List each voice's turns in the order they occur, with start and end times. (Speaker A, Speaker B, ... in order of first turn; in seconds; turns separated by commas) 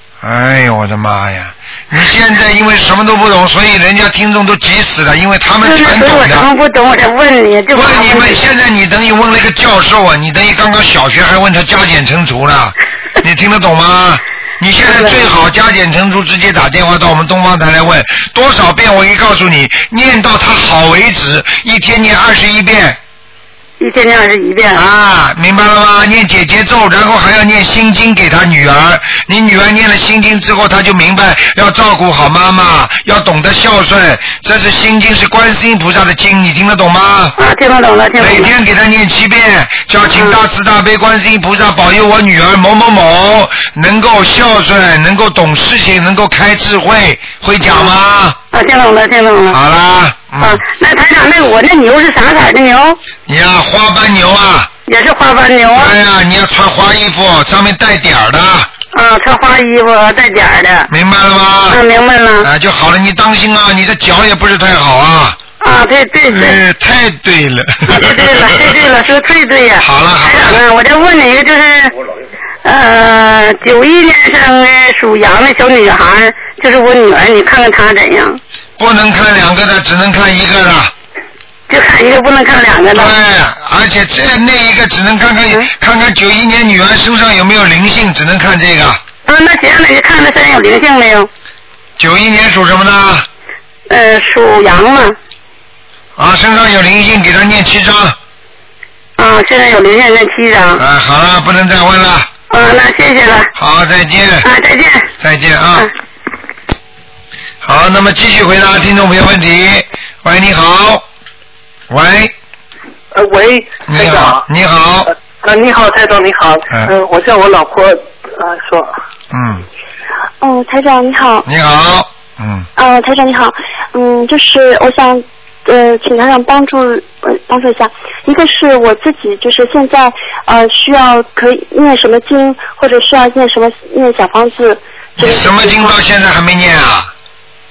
Speaker A: 0.2-6.5, Speaker B: 5.6-8.4, Speaker A: 7.7-23.0, Speaker B: 14.9-15.3, Speaker B: 23.8-24.8, Speaker A: 24.7-37.4, Speaker B: 37.4-38.5, Speaker A: 38.2-48.4, Speaker B: 40.1-40.4, Speaker B: 48.5-49.6, Speaker A: 49.5-50.6, Speaker B: 50.4-53.0, Speaker A: 53.3-54.7, Speaker B: 54.9-56.0, Speaker A: 55.7-58.7, Speaker B: 58.9-60.9, Speaker A: 60.9-61.8, Speaker B: 61.7-62.5, Speaker A: 62.4-65.4, Speaker B: 65.6-66.6, Speaker A: 66.3-68.8, Speaker B: 67.9-71.9, Speaker A: 69.8-70.6, Speaker B: 72.6-78.4, Speaker A: 78.8-80.9, Speaker B: 81.7-83.2, Speaker A: 82.9-89.0, Speaker B: 89.3-91.3, Speaker A: 92.0-93.3, Speaker B: 93.9-95.2, Speaker A: 96.2-98.2, Speaker B: 99.2-100.8, Speaker A: 100.8-102.3, Speaker B: 102.5-103.5, Speaker A: 103.6-104.5, Speaker B: 104.4-105.1, Speaker A: 105.2-105.9, Speaker A: 107.6-111.0, Speaker A: 111.9-112.3, Speaker C: 113.1-114.5, Speaker A: 113.9-115.1, Speaker C: 115.1-119.0, Speaker A: 119.3-119.7, Speaker D: 120.4-121.5, Speaker A: 121.5-122.7, Speaker D: 122.8-136.0, Speaker A: 135.2-137.1